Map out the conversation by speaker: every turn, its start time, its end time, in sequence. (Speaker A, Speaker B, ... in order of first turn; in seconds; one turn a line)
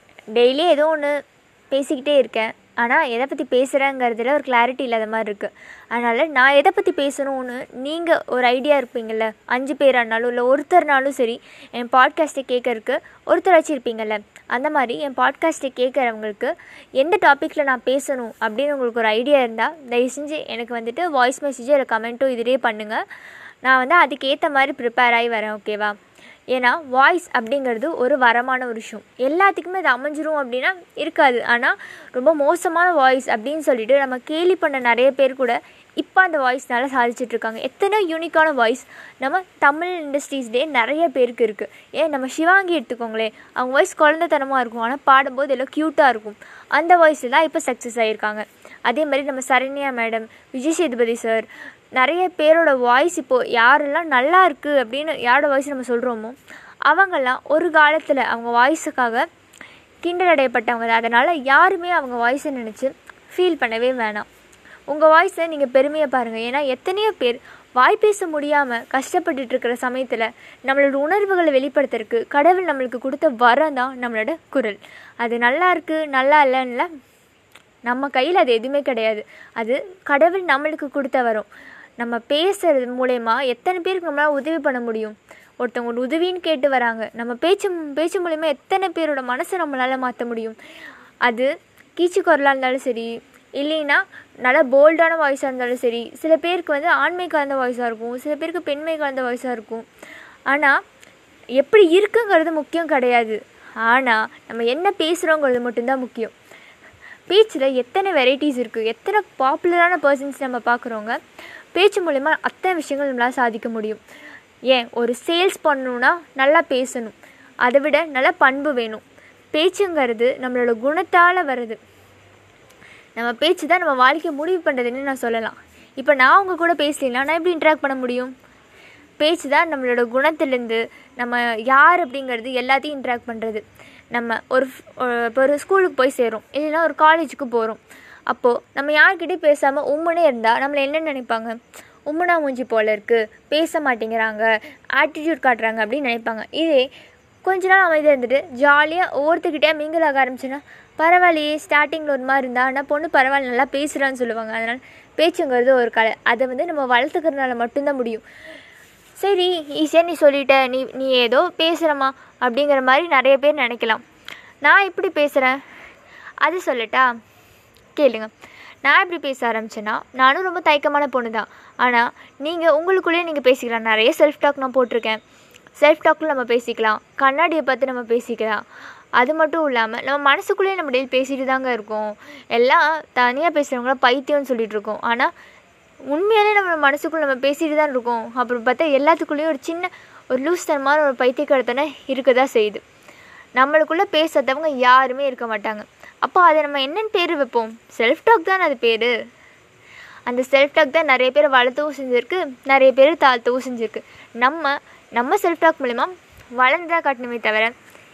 Speaker A: 0.3-1.1
Speaker A: 1.7-23.0
Speaker A: 23.6-26.0
Speaker A: 26.5-56.4
Speaker A: 56.9-59.2
Speaker A: 60.0-64.3
Speaker A: 64.9-76.9
Speaker A: 77.8-81.5
Speaker A: 82.0-90.5
Speaker A: 91.2-99.8
Speaker A: 100.5-100.7
Speaker A: 101.6-106.3
Speaker A: 107.3-111.2
Speaker A: 111.7-114.0
Speaker A: 114.7-121.8
Speaker A: 123.2-128.3
Speaker A: 129.2-146.8
Speaker A: 147.4-158.2
Speaker A: 159.2-164.0
Speaker A: 164.6-165.6
Speaker A: 166.4-167.1
Speaker A: 167.9-168.3
Speaker A: 168.8-175.2
Speaker A: 175.8-178.6
Speaker A: 179.2-185.3
Speaker A: 186.1-192.8
Speaker A: 193.6-199.1
Speaker A: 200.3-207.7